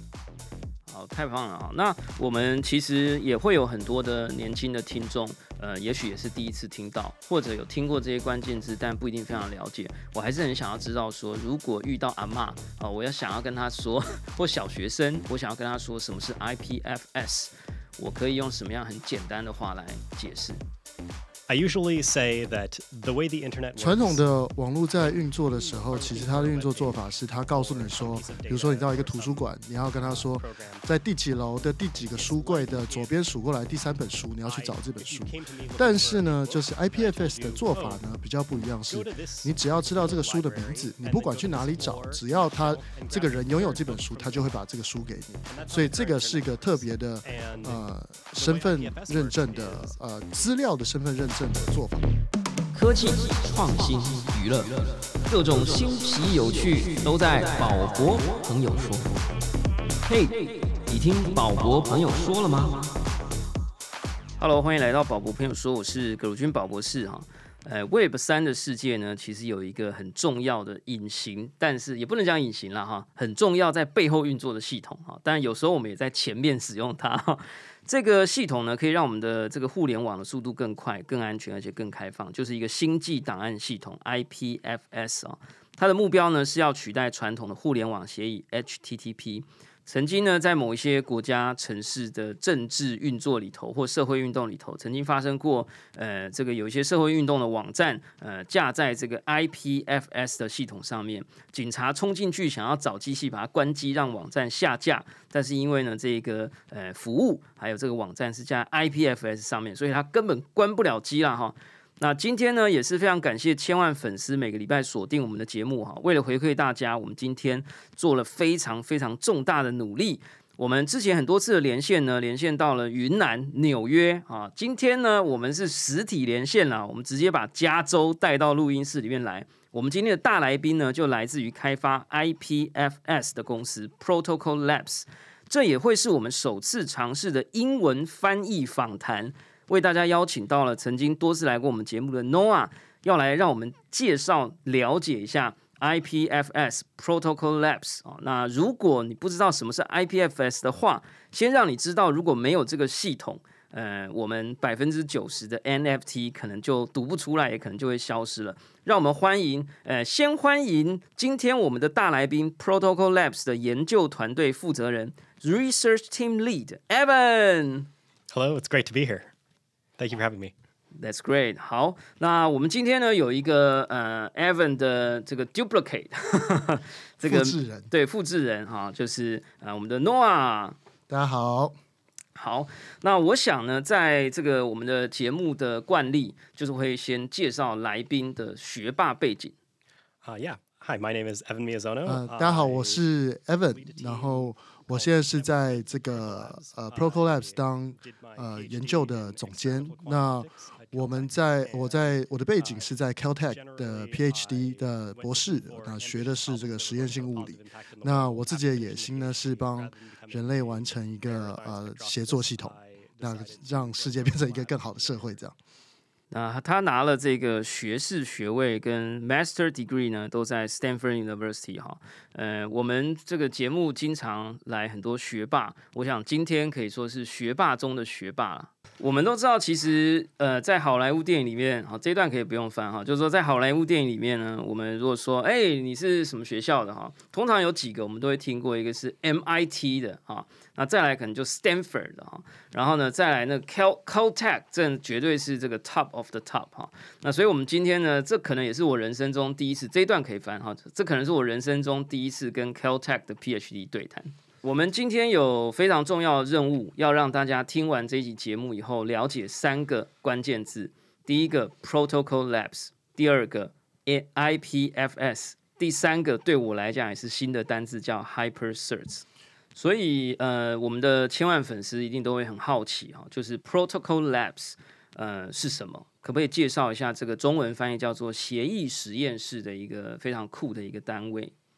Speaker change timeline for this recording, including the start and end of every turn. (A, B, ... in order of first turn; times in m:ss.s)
0:00.9-0:20.6 A
0:21.5-0:24.3 B
0:23.8-0:52.0 C
0:25.0-0:30.9 B
0:32.1-0:33.2 B
0:34.4-0:38.0 B
0:38.9-0:44.6 B
0:45.5-0:50.5 B
0:52.7-0:59.2 A
1:00.0-1:02.9 A
1:04.4-2:47.9 A
2:48.3-2:49.3 B
2:50.0-2:50.5 B
2:51.0-3:00.8 A
2:57.2-2:57.9 C
3:01.1-3:01.8 C
3:02.4-3:09.5 A
3:10.2-3:13.0 B
3:12.1-3:35.6 C
3:13.7-3:35.4 B
3:36.3-4:41.5 A